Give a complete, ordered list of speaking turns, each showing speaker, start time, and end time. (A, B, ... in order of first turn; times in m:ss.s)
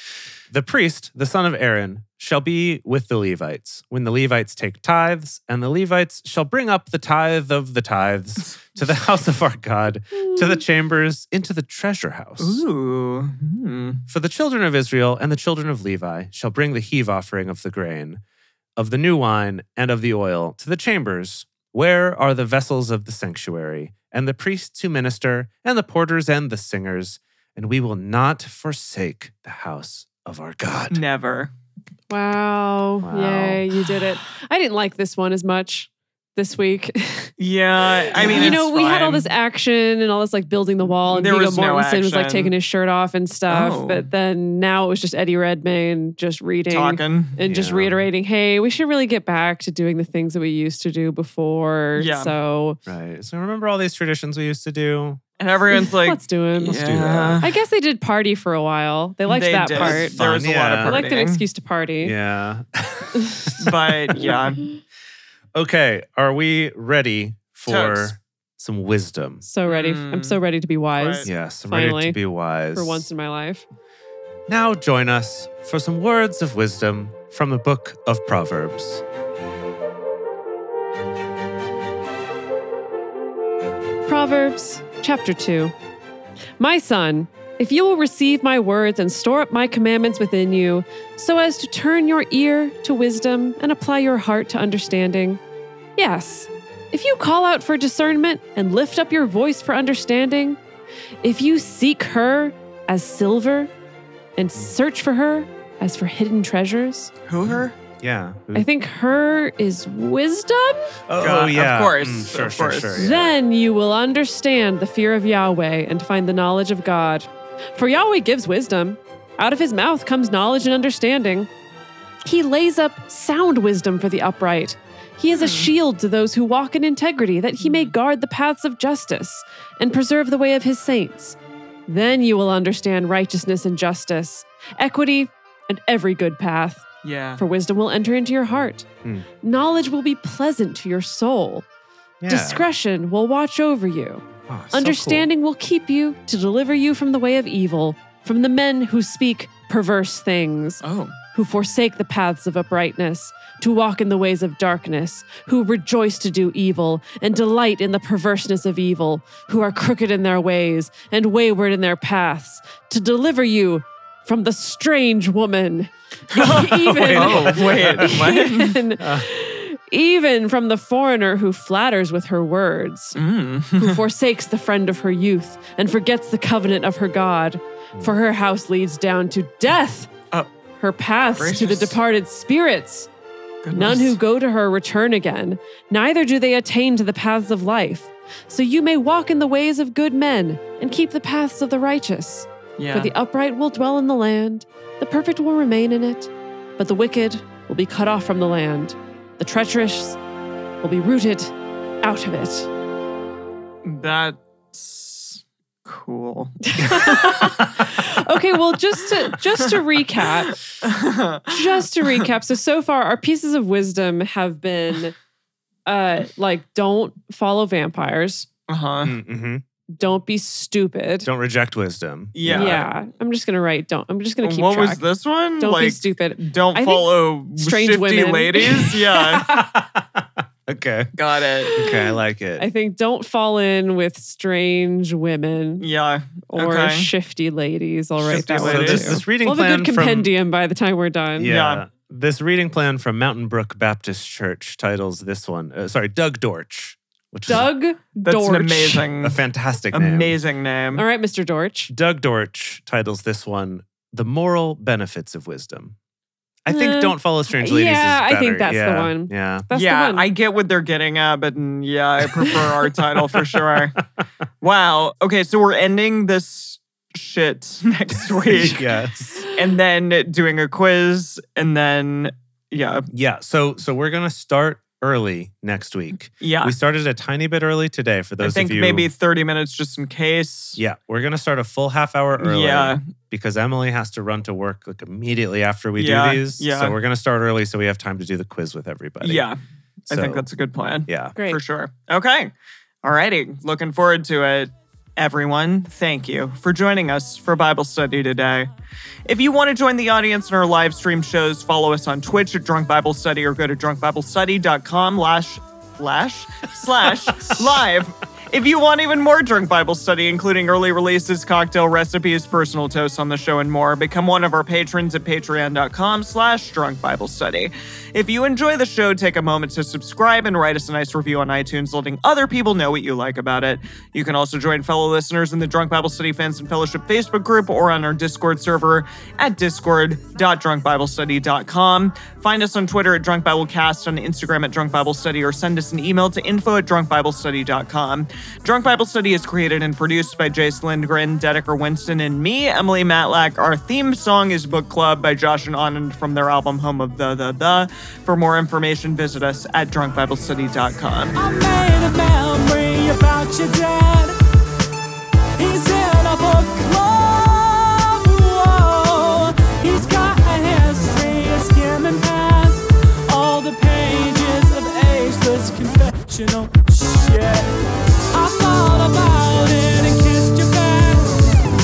0:00.5-0:12.6 A
0:12.4-0:14.0 B
0:14.1-0:18.2 A
0:18.8-0:31.0 A
0:30.9-0:31.5 B
0:32.1-0:37.3 C
0:33.0-0:33.6 A
0:37.4-0:39.3 B
0:38.1-0:52.8 C
0:38.3-0:38.5 A
0:41.0-0:42.5 B
0:43.5-0:44.1 B
0:46.7-0:47.4 B
0:47.4-0:48.0 A
0:52.0-0:52.3 B
0:52.8-0:55.2 A
0:55.4-0:57.5 B
0:55.7-0:56.8 C
0:56.6-0:57.4 A
0:57.4-1:00.2 C
0:59.3-1:01.4 B
0:59.7-1:01.0 A
1:00.8-1:02.1 C
1:02.0-1:04.4 A
1:03.6-1:04.6 B
1:04.2-1:04.8 C
1:05.5-1:09.4 A
1:07.7-1:08.1 B
1:09.4-1:12.2 C
1:09.7-1:10.4 B
1:11.0-1:11.3 B
1:11.2-1:13.1 A
1:12.7-1:13.6 C
1:14.5-1:19.0 A
1:24.0-1:25.7 C
1:26.6-1:35.4 C
1:36.0-1:40.6 C
1:41.2-1:43.7 C
1:44.4-1:47.1 C
1:47.3-1:47.7 B
1:48.0-1:48.7 A
1:48.5-1:50.9 C
1:51.1-1:53.3 A
1:51.2-1:53.0 B
1:53.0-2:01.5 C
2:02.2-2:11.4 C
2:05.3-2:05.7 B
2:07.6-2:07.9 B
2:11.9-2:16.8 C
2:17.0-2:17.4 B
2:17.4-2:18.8 C
2:19.4-2:21.6 C
2:22.2-2:22.7 A
2:22.3-2:30.8 C
2:24.5-2:25.3 A
2:30.8-2:31.2 B
2:31.3-2:53.2 C
2:46.3-2:48.8 B
2:46.4-2:48.1 A
2:49.0-2:49.3 A
2:53.1-2:54.0 B
2:53.8-3:00.1 C
3:00.8-3:03.1 C
3:01.4-3:02.0 B
3:03.6-3:04.2 B
3:03.7-3:20.2 C
3:12.8-3:13.1 B
3:20.8-3:22.7 C
3:23.8-3:27.6 B
3:26.7-3:30.6 C
3:26.8-3:27.8 A
3:30.8-3:32.2 B
3:31.5-3:35.2 C
3:35.8-3:38.5 C
3:38.7-3:39.2 B
3:39.0-3:39.6 A
3:40.0-3:41.3 C
3:41.2-3:42.9 A
3:42.3-3:42.8 B
3:42.5-3:45.0 C
3:44.4-3:49.5 B
3:45.6-3:49.7 C
3:49.5-3:51.1 A
3:51.1-3:51.7 B
3:51.6-3:52.0 C
3:51.7-3:52.7 A
3:52.6-3:55.9 C
3:55.8-3:57.1 B
3:56.5-4:01.5 C
3:58.2-3:59.1 B
3:58.3-4:00.3 A
4:01.4-4:07.7 A
4:01.5-4:01.8 B
4:07.5-4:09.0 C
4:08.2-4:09.4 B
4:09.2-4:10.4 A
4:09.9-4:11.0 B
4:10.9-4:11.9 C
4:11.9-4:15.9 A
4:16.6-4:19.7 A
4:16.7-4:20.3 C
4:19.7-4:24.0 B
4:23.3-4:23.8 A
4:24.6-4:28.9 B
4:28.5-4:29.5 A
4:29.5-4:33.1 B
4:33.1-4:39.1 A
4:36.4-4:36.7 B
4:38.4-4:40.8 B
4:40.8-4:49.5 A
4:42.4-4:43.0 B
4:46.0-4:47.0 B
4:49.2-4:52.5 B
4:50.1-4:50.4 A
4:51.1-4:51.4 A
4:51.4-4:51.6 C
4:53.0-4:58.7 B
4:59.2-5:51.3 B
5:07.3-5:07.5 A
5:51.4-5:54.4 D
5:55.6-6:07.7 D
6:08.3-6:11.5 D